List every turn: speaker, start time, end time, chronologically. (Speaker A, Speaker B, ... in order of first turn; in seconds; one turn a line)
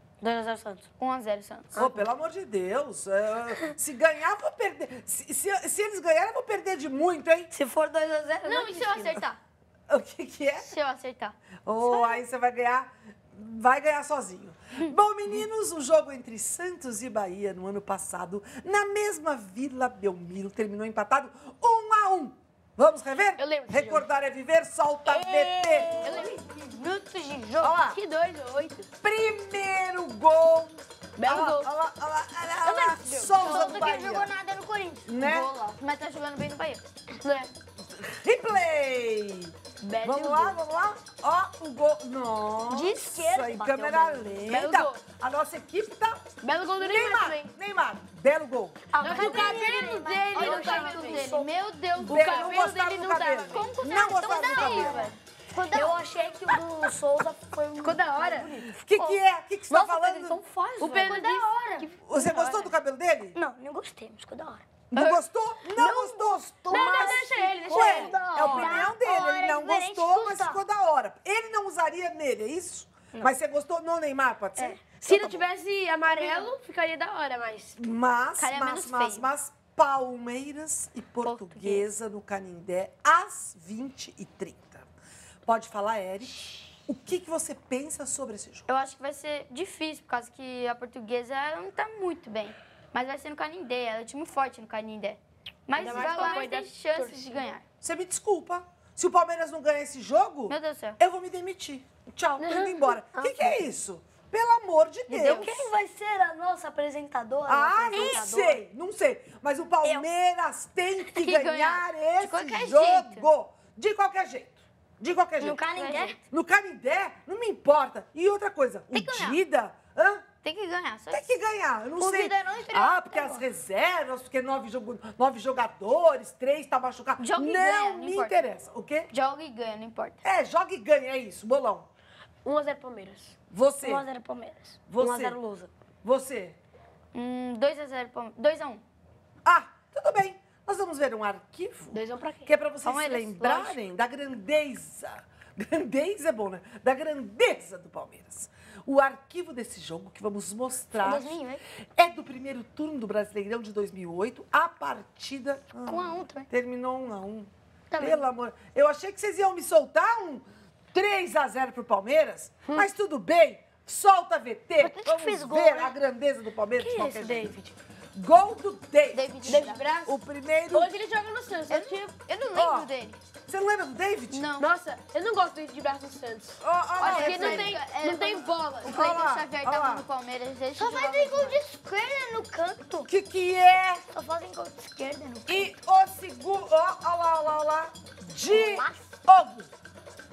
Speaker A: 0.2-0.9
Speaker B: 1.0-1.8
Speaker A: 1.7-2.1
Speaker C: 1.7-7.5
Speaker A: 7.5-9.2
Speaker B: 8.4-9.4
Speaker C: 9.9-10.7
Speaker B: 10.6-12.2
Speaker C: 11.7-26.1
Speaker D: 23.4-24.1
Speaker D: 25.1-26.4
Speaker E: 26.0-27.7
Speaker C: 27.6-28.0
Speaker D: 27.8-28.9
Speaker C: 29.0-34.3
Speaker D: 31.2-31.7
Speaker D: 32.6-34.1
Speaker E: 33.4-35.1
Speaker B: 33.4-33.8
Speaker C: 35.0-35.5
Speaker B: 35.2-36.8
Speaker D: 37.2-37.5
Speaker C: 37.9-46.2
Speaker D: 39.8-40.6
Speaker A: 42.7-44.5
Speaker D: 44.5-45.0
Speaker D: 46.4-47.5
Speaker C: 46.8-48.9
Speaker E: 48.9-51.1
Speaker D: 49.0-51.5
Speaker B: 50.3-52.8
Speaker A: 50.4-50.8
Speaker C: 52.0-55.1
Speaker D: 52.1-53.8
Speaker B: 53.5-55.2
Speaker E: 54.4-56.0
Speaker A: 55.7-59.1
Speaker D: 57.8-58.5
Speaker C: 58.8-60.4
Speaker A: 59.7-61.2
Speaker D: 60.8-62.7
Speaker E: 60.9-61.9
Speaker C: 62.0-63.4
Speaker E: 63.3-64.6
Speaker C: 64.9-75.4
Speaker B: 64.9-65.2
Speaker E: 65.8-70.6
Speaker D: 66.7-68.6
Speaker A: 68.5-68.8
Speaker D: 74.9-77.8
Speaker C: 77.8-84.8
Speaker B: 78.4-79.3
Speaker B: 81.2-81.8
Speaker C: 85.5-88.7
Speaker B: 88.7-97.6
Speaker D: 95.8-97.5
Speaker C: 97.8-105.5
Speaker B: 100.5-101.0
Speaker D: 102.4-102.8
Speaker A: 103.1-103.7
Speaker B: 105.1-105.7
Speaker A: 105.2-108.6
Speaker C: 107.5-115.7
Speaker B: 107.9-108.2
Speaker B: 111.2-113.3
Speaker E: 115.4-116.2
Speaker B: 115.7-116.1
Speaker C: 116.3-120.2
Speaker B: 118.9-119.4
Speaker B: 120.4-121.2
Speaker C: 121.1-129.1
Speaker E: 122.0-123.4
Speaker B: 127.2-128.5
Speaker B: 129.1-130.2
Speaker C: 130.2-131.9
Speaker D: 132.4-133.3
Speaker C: 133.5-134.1
Speaker E: 133.8-134.7
Speaker C: 134.9-135.4
Speaker A: 135.0-135.7
Speaker C: 136.0-136.6
Speaker B: 137.1-138.8
Speaker C: 139.4-151.4
Speaker D: 141.9-142.5
Speaker B: 142.8-143.8
Speaker E: 151.0-151.6
Speaker C: 151.9-167.5
Speaker E: 155.8-156.5
Speaker E: 157.9-158.2
Speaker E: 164.8-165.9
Speaker D: 166.8-167.7
Speaker C: 168.1-170.9
Speaker B: 169.1-169.8
Speaker D: 169.4-170.2
Speaker D: 170.7-172.1
Speaker B: 171.7-173.2
Speaker C: 172.5-172.9
Speaker C: 173.5-174.5
Speaker B: 174.3-174.7
Speaker D: 174.6-179.1
Speaker C: 176.6-177.8
Speaker B: 177.0-181.6
Speaker C: 178.8-180.0
Speaker E: 180.7-183.1
Speaker C: 183.1-184.0
Speaker E: 184.0-185.8
Speaker C: 185.5-189.7
Speaker E: 188.5-189.1